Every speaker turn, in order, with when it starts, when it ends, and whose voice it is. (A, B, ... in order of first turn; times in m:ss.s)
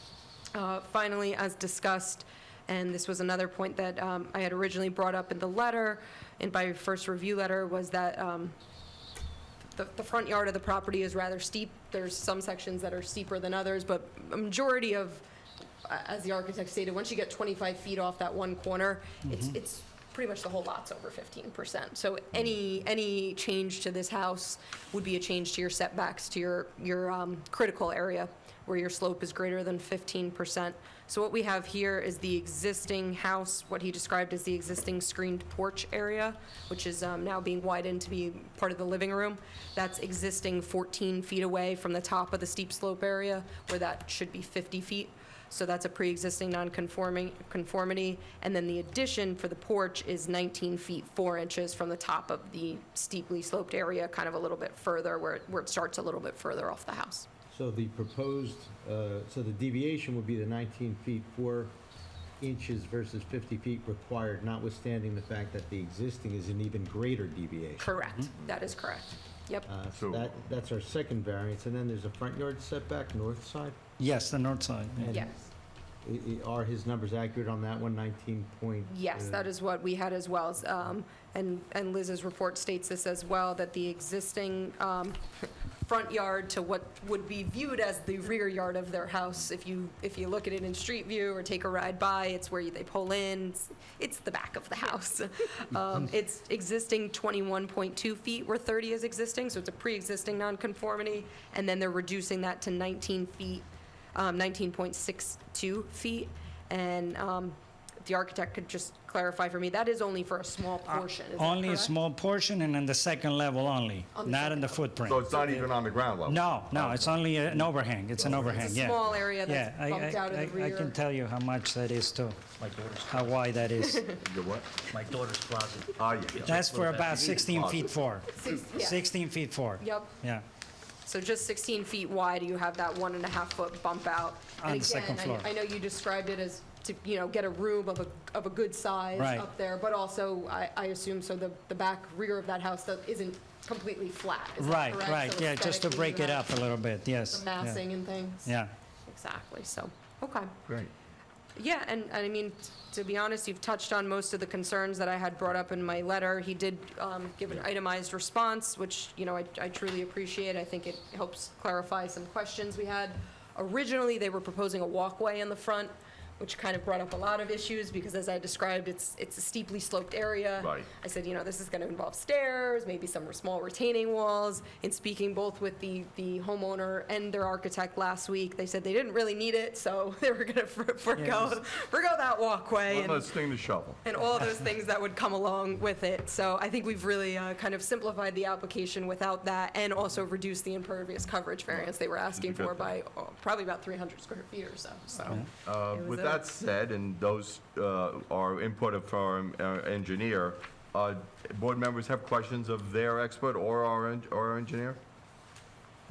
0:00.5-0:08.6 A
0:09.8-0:15.2 A
0:15.8-0:57.3 A
0:19.2-0:19.6 B
0:57.5-1:01.8 C
1:02.4-1:07.9 C
1:07.8-1:09.7 A
1:09.7-1:13.8 C
1:09.9-1:10.3 D
1:14.0-1:15.2 B
1:15.0-1:15.5 C
1:16.0-1:19.5 C
1:18.9-1:51.9 A
1:50.9-1:55.7 B
1:54.1-1:55.6 A
1:55.0-1:57.7 D
1:56.2-2:02.4 B
1:58.2-1:58.4 D
1:58.3-2:01.0 A
2:02.6-2:03.4 E
2:03.1-2:04.2 B
2:03.8-2:04.2 A
2:04.2-2:04.8 D
2:04.9-2:06.9 E
2:06.0-2:07.9 D
2:06.4-2:10.4 B
2:08.3-2:09.1 A
2:09.8-2:10.1 A
2:11.0-2:26.5 A
2:14.6-2:15.5 B
2:19.2-2:19.5 B
2:24.6-2:27.8 B
2:27.3-2:28.5 A
2:28.4-2:28.7 B
2:29.1-2:30.5 A
2:31.6-3:03.4 A
2:50.6-2:50.9 D
3:01.2-3:01.6 B
3:02.9-3:04.0 D
3:04.0-3:16.4 A
3:11.7-3:12.9 D
3:15.6-3:25.0 D